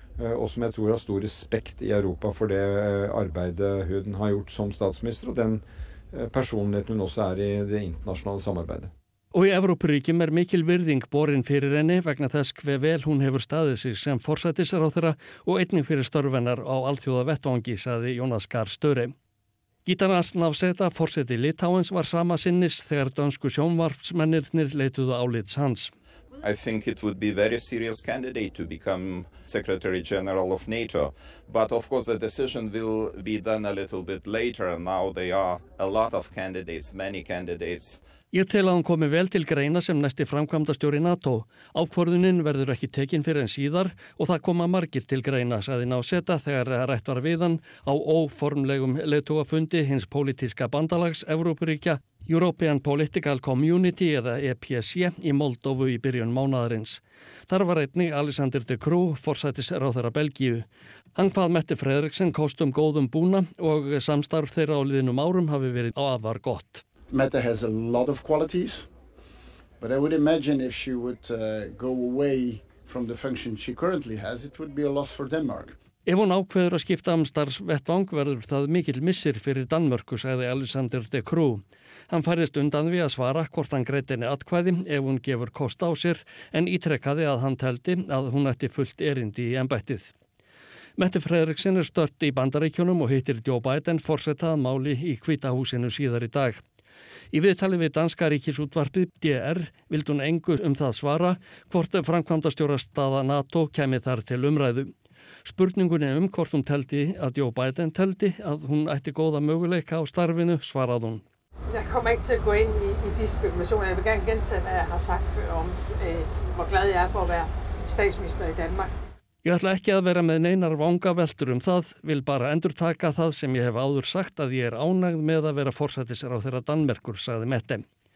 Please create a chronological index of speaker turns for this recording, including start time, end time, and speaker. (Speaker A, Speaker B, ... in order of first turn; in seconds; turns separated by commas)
Speaker A: 0.2-8.9, Speaker B: 9.3-19.1, Speaker B: 19.9-25.9, Speaker C: 26.4-38.0, Speaker B: 38.3-66.8, Speaker D: 67.1-68.9, Speaker D: 69.8-75.8, Speaker B: 76.1-90.1, Speaker B: 91.0-96.6, Speaker B: 97.3-104.9, Speaker B: 105.5-111.2, Speaker E: 111.7-118.9, Speaker B: 119.4-127.8